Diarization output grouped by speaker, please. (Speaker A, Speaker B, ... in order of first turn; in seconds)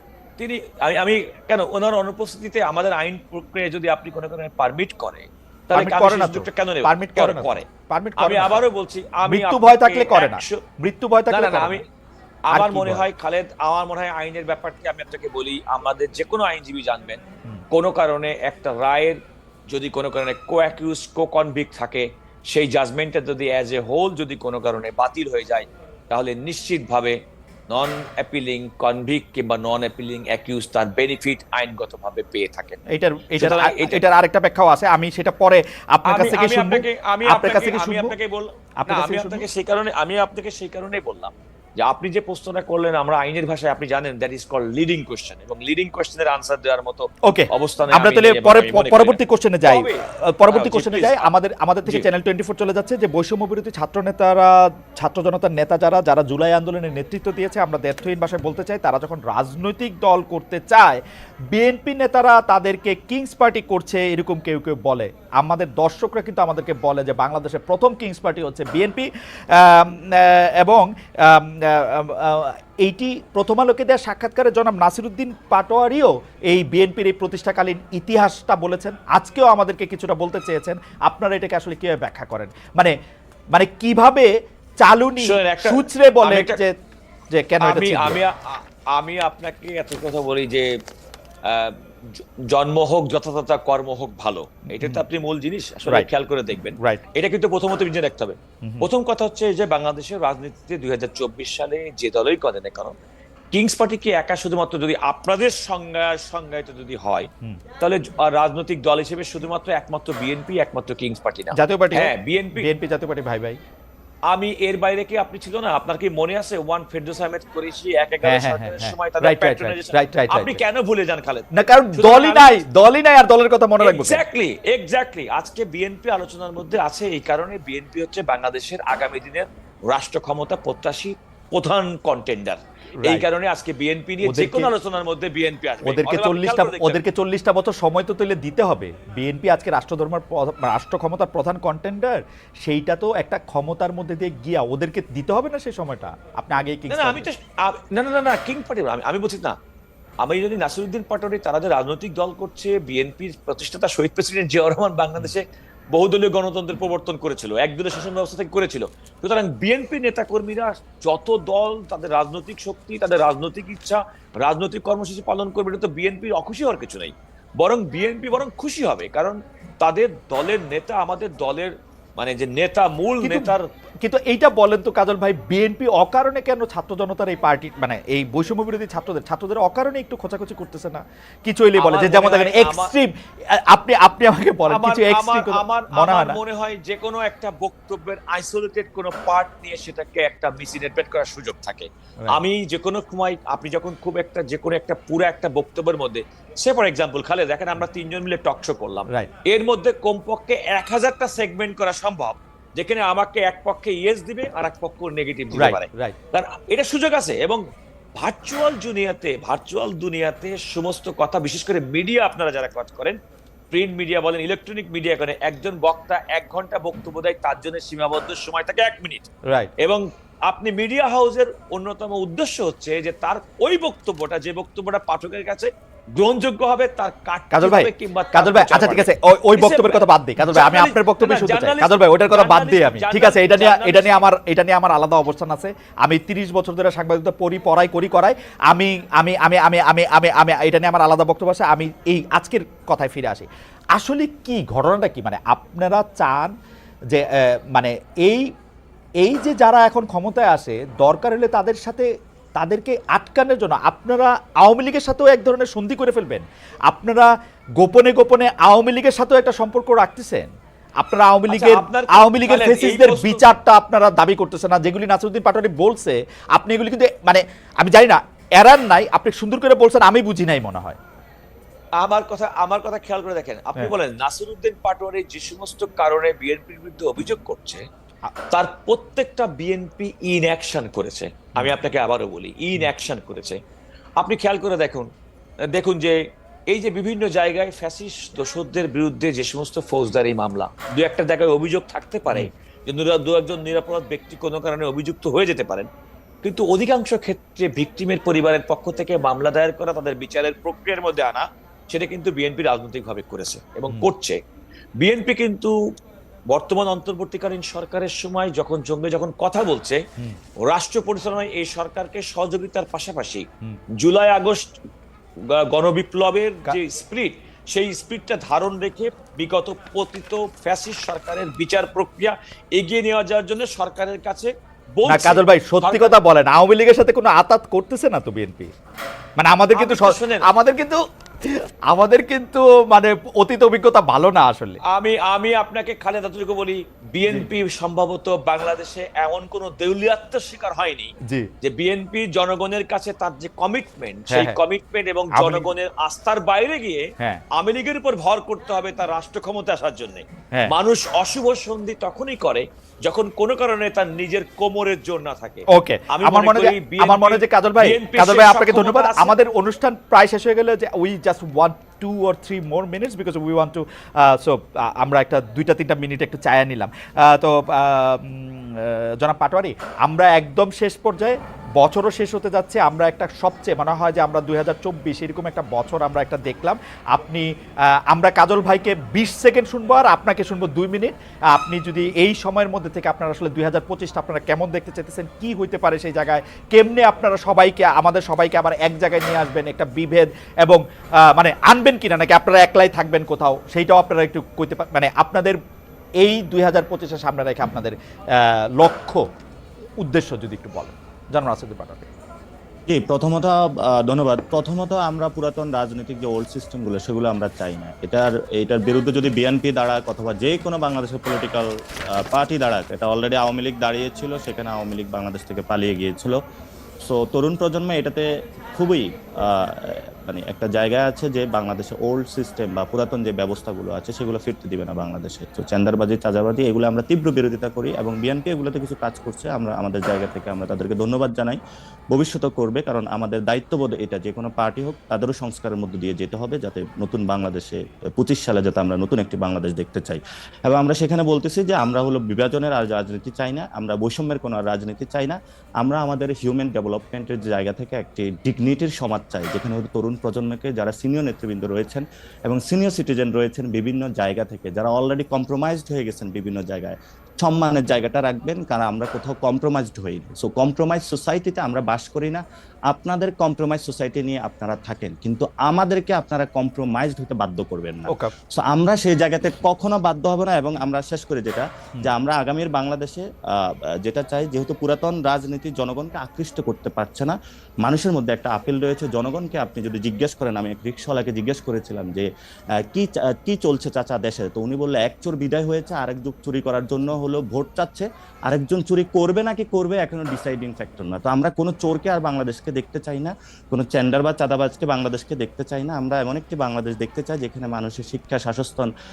Speaker A: 0.4-7.6, 8.2-10.6, 11.3-11.8, 12.5-17.2, 17.7-19.2, 19.7-27.1, 27.7-32.8, 33.4-34.0, 36.1-51.3, 85.2-86.6, 87.6-90.7, 91.5-103.0, 103.5-107.3, 107.8-112.7, 114.3-122.6, 123.8-137.0, 146.9-149.5, 150.2-173.7, 181.8-182.9, 184.7-207.6, 208.2-213.2, 213.7-219.3, 219.8-234.2, 261.5-263.5, 272.0-277.8, 278.5-283.6, 284.2-285.1, 285.7-286.2, 286.7-295.9, 296.4-304.4, 305.0-305.7, 306.5-310.0, 310.6-313.4, 314.0-314.7, 315.5-326.1, 329.7-330.4, 334.9-347.0, 347.5-359.3
Speaker B: 5.7-8.6, 9.2-11.8, 12.5-13.1, 32.9-38.1, 38.8-39.5, 47.3-61.0, 61.5-82.9, 83.5-84.3, 84.8-86.7, 87.3-88.2, 94.7-95.0, 98.6-98.9, 111.5-113.6, 118.2-120.6, 121.5-124.2, 134.2-134.7, 135.8-147.3, 173.2-186.4, 205.5-206.1, 227.5-246.5, 247.1-248.5, 249.2-257.3, 257.8-260.5, 261.0-271.0, 325.1-328.7, 329.4-334.8, 344.3-344.6, 345.3-345.7, 355.7-377.4, 378.1-395.6, 396.2-399.2, 400.0-402.1
Speaker C: 402.9-411.6, 412.3-416.4, 417.0-418.2, 418.8-431.6, 432.1-473.2, 474.0-482.3, 482.9-498.9